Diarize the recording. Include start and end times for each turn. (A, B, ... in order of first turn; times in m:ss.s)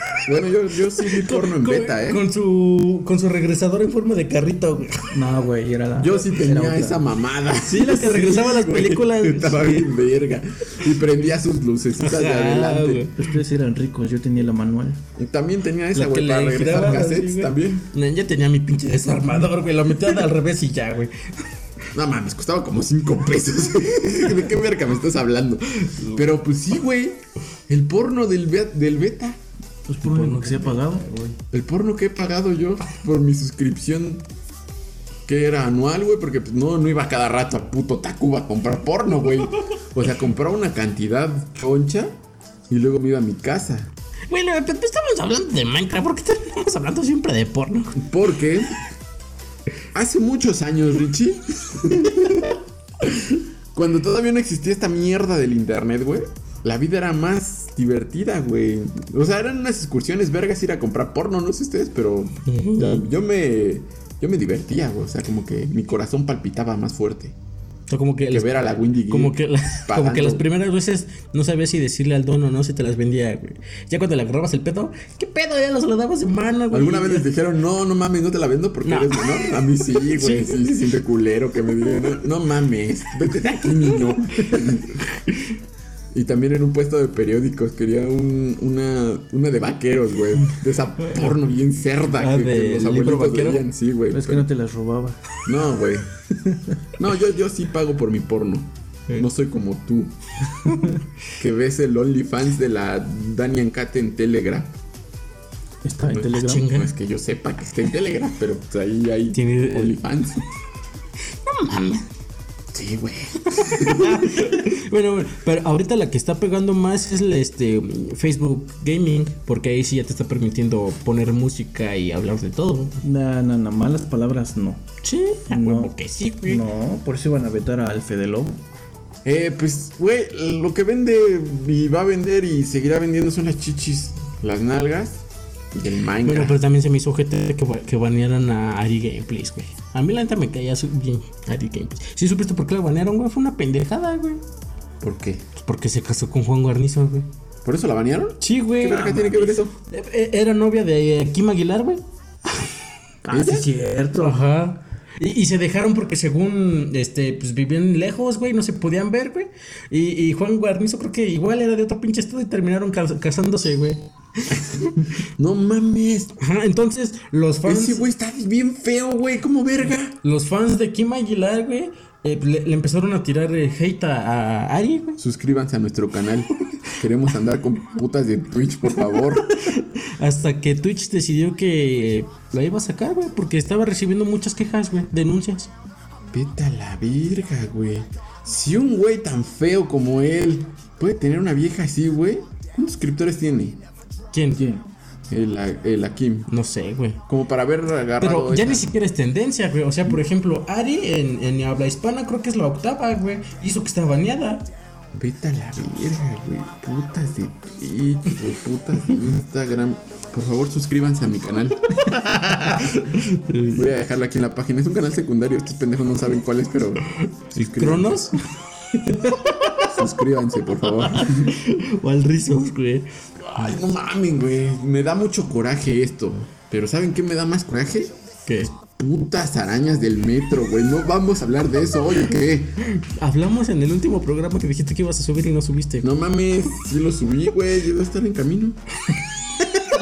0:00.2-0:02.2 A
0:01.1-0:05.1 B
0:05.1-0:07.0 C
0:06.0-0:13.1 A
0:07.7-0:09.9 B
0:12.0-0:13.2 B
0:13.1-0:15.0 C
0:15.2-0:17.9 A
0:15.9-0:21.4 B
0:21.9-0:29.4 A
0:29.8-0:31.4 C
0:30.0-0:31.0 B
0:31.5-0:34.2 A
0:35.3-0:42.2 A
0:42.7-0:43.9 A
0:44.3-0:48.0 B
0:48.0-0:48.8 A
0:49.9-1:07.3 A
1:02.4-1:03.0 B
1:07.9-1:08.5 B
1:08.3-1:10.4 A
1:09.1-1:17.3 B
1:16.7-1:25.0 A
1:18.8-1:20.5 B
1:23.5-1:24.2 B
1:26.1-1:34.5 A
1:32.1-1:33.6 B
1:34.1-1:35.2 C
1:35.4-1:36.1 A
1:36.4-1:36.7 C
1:37.0-1:40.1 A
1:41.4-1:44.7 A
1:45.8-1:46.7 C
1:46.1-1:50.4 A
1:46.3-1:46.9 B
1:49.3-1:50.0 B
1:51.4-1:52.0 B
1:52.7-1:54.3 A
1:53.5-2:03.0 B
2:03.0-2:04.8 C
2:05.0-2:06.6 B
2:05.5-2:08.6 C
2:09.2-2:16.6 A
2:16.2-2:24.4 B
2:25.0-2:25.4 A
2:25.6-2:27.3 B
2:27.6-2:29.7 A
2:28.4-2:32.0 B
2:33.2-2:34.4 C
2:33.3-2:33.7 A
2:34.2-2:45.0 B
2:45.2-2:46.4 A
2:46.4-2:48.1 B
2:47.6-2:50.2 A
2:50.2-2:55.2 B
2:55.2-2:59.5 A
2:59.1-3:05.7 B
3:06.3-3:13.8 A
3:14.3-3:14.6 B
3:15.3-3:16.5 A
3:16.5-3:17.2 B
3:17.3-3:18.9 A
3:18.2-3:24.7 B
3:25.1-3:32.0 A
3:32.0-3:33.8 B
3:32.5-3:33.0 A
3:33.7-3:38.3 A
3:37.6-3:38.4 B
3:39.1-3:39.9 B
3:39.8-3:41.6 A
3:41.0-3:43.1 B
3:43.5-3:48.1 A
3:48.5-3:48.7 B
3:48.7-3:52.8 A
3:52.9-3:56.1 B
3:56.0-3:58.8 A